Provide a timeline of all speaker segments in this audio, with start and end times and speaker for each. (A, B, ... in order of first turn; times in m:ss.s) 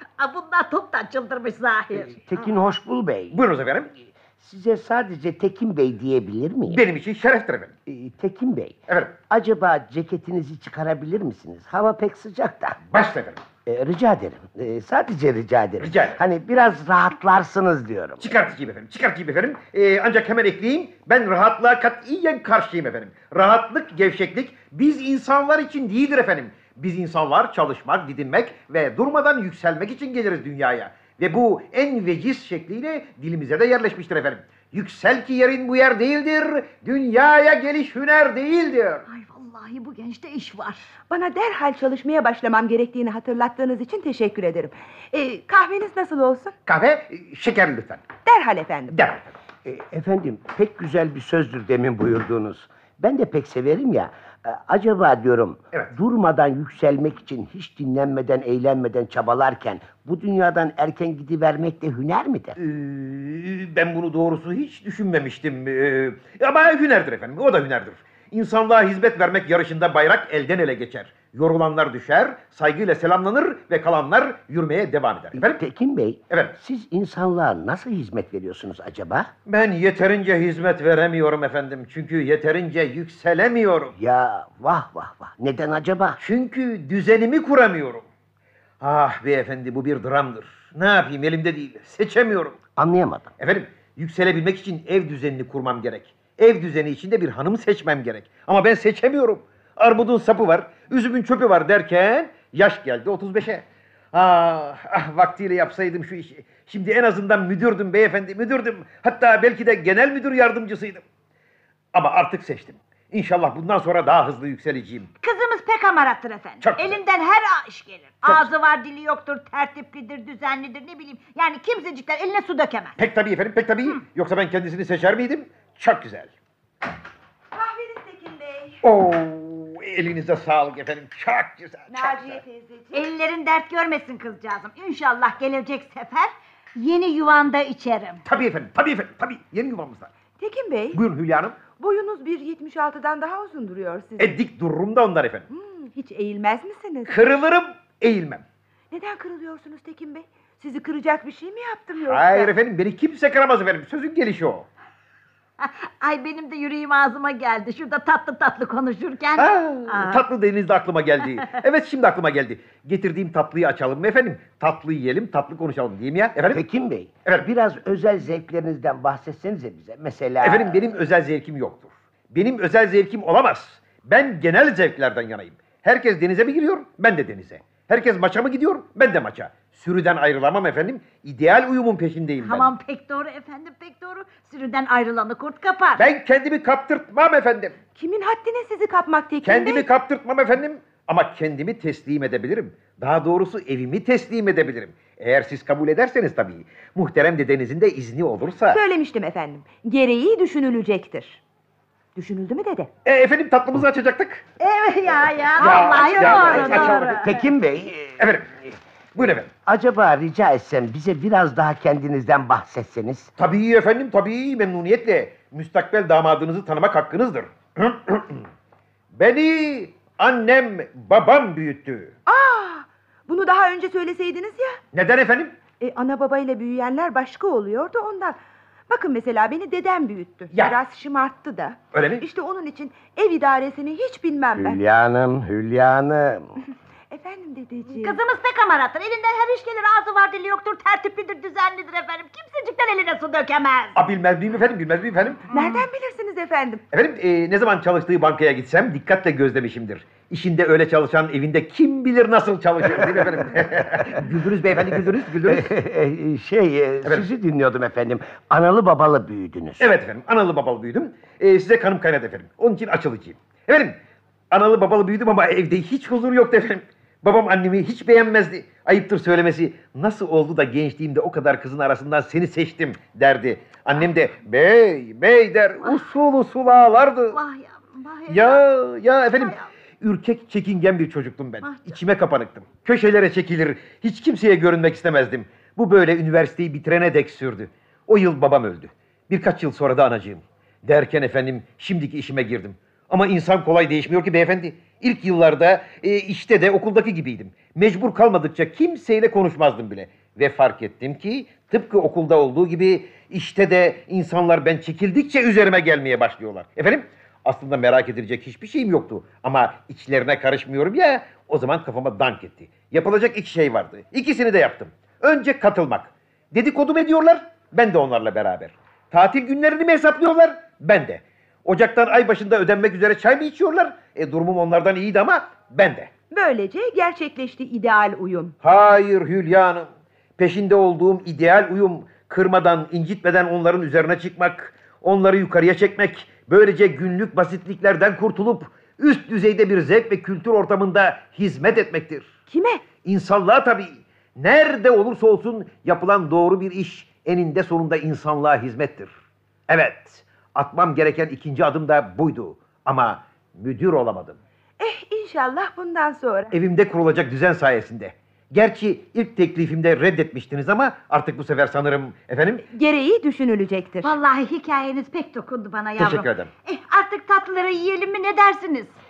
0:00.2-0:02.2 A
0:01.9-0:03.4 B
0:03.3-0:03.9 C
0:04.1-0:06.8 B
0:06.7-0:07.7 C
0:07.9-0:12.8 B
0:08.9-0:09.2 C
0:12.8-0:13.4 C
0:13.6-0:18.3 B
0:15.8-0:16.2 C
0:18.2-0:39.0 C
0:39.1-0:40.9 A
0:41.1-0:46.6 D
0:46.6-0:48.0 C
0:48.2-0:49.0 D
0:48.9-0:49.3 C
0:49.6-1:02.6 B
1:02.6-1:15.6 C
1:15.3-1:19.3 B
1:16.3-1:16.6 C
1:19.4-1:24.0 C
1:24.0-1:26.2 B
1:26.2-1:28.0 C
1:28.8-1:32.6 C
1:32.8-1:33.3 B
1:33.4-1:51.0 C
1:51.9-1:55.1 C
1:55.2-2:03.0 A
1:56.6-1:57.0 C
1:58.2-1:58.5 C
2:03.0-2:06.3 C
2:07.5-2:08.8 D
2:08.8-2:12.4 C
2:11.9-2:13.0 D
2:12.9-2:18.2 A
2:18.2-2:20.1 C
2:20.4-2:21.0 D
2:20.9-2:21.6 C
2:21.6-2:24.4 D
2:24.2-2:25.5 C
2:25.5-2:27.2 D
2:27.1-2:28.4 C
2:28.9-2:32.5 D
2:32.0-2:34.7 C
2:35.6-2:40.2 A
2:39.4-2:46.6 C
2:46.5-2:50.8 B
2:50.4-3:02.7 C
3:02.4-3:06.0 A
3:06.0-3:07.8 C
3:08.0-3:09.8 D
3:09.4-3:18.8 C
3:18.7-3:21.4 D
3:22.1-3:22.9 D
3:23.0-3:24.4 C
3:24.6-3:27.4 A
3:25.6-3:27.2 C
3:25.6-3:27.0 D
3:27.0-3:28.2 B
3:28.2-3:28.5 C
3:29.2-3:29.5 C
3:29.6-3:33.3 B
3:33.4-3:38.5 C
3:39.1-3:42.1 C
3:42.2-3:44.8 D
3:44.9-3:45.6 C
3:45.8-3:48.4 D
3:48.9-3:54.8 D
3:50.5-3:50.8 C
3:51.9-3:52.2 C
3:54.5-3:56.5 B
3:57.1-3:58.2 D
3:57.9-4:04.0 A
4:04.0-4:05.5 C
4:05.5-4:06.8 D
4:06.9-4:15.7 C
4:15.4-4:19.9 B
4:19.8-4:24.0 C
4:24.5-4:37.4 C
4:37.3-4:38.6 A
4:38.3-5:26.1 C
4:39.4-4:39.7 A
4:41.6-4:41.9 A
5:26.3-5:28.5 D
5:28.6-5:42.3 C
5:42.5-5:42.8 D
5:43.0-5:49.1 C
5:49.7-5:54.4 C
5:54.8-5:56.5 D
5:56.5-6:02.6 C
6:02.7-6:04.1 D
6:04.0-6:09.0 A
6:06.0-6:06.5 C